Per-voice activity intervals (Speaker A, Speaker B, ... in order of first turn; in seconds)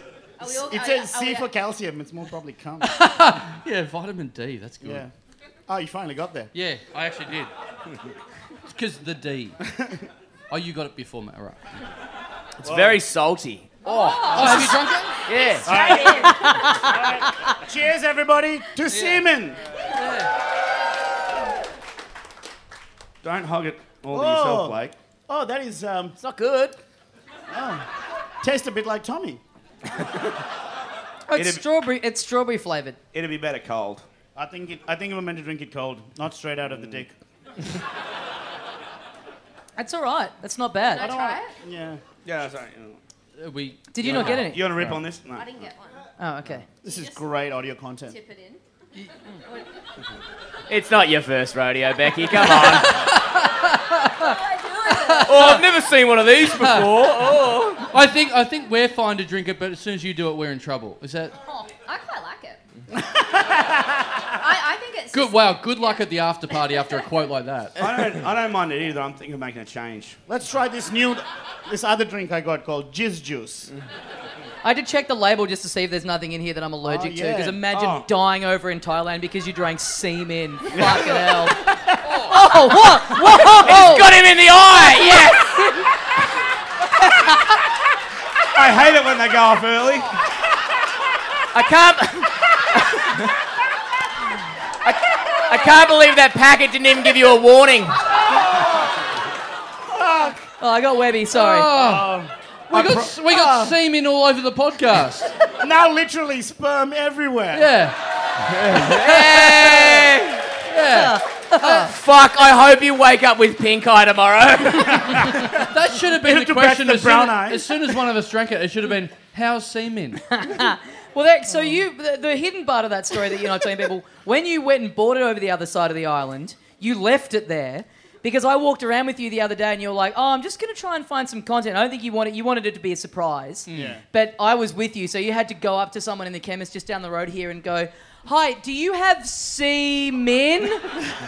Speaker A: 0.4-1.5, 13.8-14.8, 15.3-16.9, 40.9-41.6, 45.3-46.1, 46.8-47.3, 48.0-48.6, 54.0-55.6, 61.5-62.6, 64.4-67.0
Speaker B: 0.4-3.0, 4.8-5.1, 5.7-6.5, 12.6-13.0, 14.3-15.1, 15.6-19.6, 24.1-26.2, 27.5-27.9, 28.4-29.4, 34.4-37.1, 41.0-42.0, 46.8-48.2, 63.0-64.0, 70.3-73.7, 76.8-77.6, 80.8-81.1, 98.3-98.8, 99.9-100.4, 101.7-103.8, 105.5-107.8, 108.5-109.0, 115.4-118.0, 133.7-134.0
Speaker C: 2.8-5.1, 6.5-7.5, 8.7-9.6, 10.5-11.6, 14.1-15.0, 18.9-19.3, 19.9-20.3, 43.4-45.1, 52.4-54.2, 55.1-55.7, 56.6-57.1, 57.8-61.3, 65.1-68.0, 101.3-105.4, 107.5-110.1, 110.7-111.7, 115.4-120.4, 133.7-134.0
Speaker D: 12.6-14.5, 15.3-16.8, 26.2-26.8, 50.7-53.2, 55.2-57.9, 82.3-85.9, 91.5-93.3, 94.8-98.0, 108.7-110.5, 111.7-115.3
Speaker E: 14.4-14.8, 31.3-33.0, 39.8-41.1, 43.9-44.7, 46.2-46.6, 74.6-81.6, 82.2-84.1, 100.6-101.7, 110.8-111.9, 120.3-141.1
Speaker F: 23.2-24.9, 30.0-30.3, 31.3-31.7, 33.1-34.1, 36.7-37.0, 42.2-43.0, 44.0-45.7, 67.8-70.2, 77.7-78.1, 88.5-90.1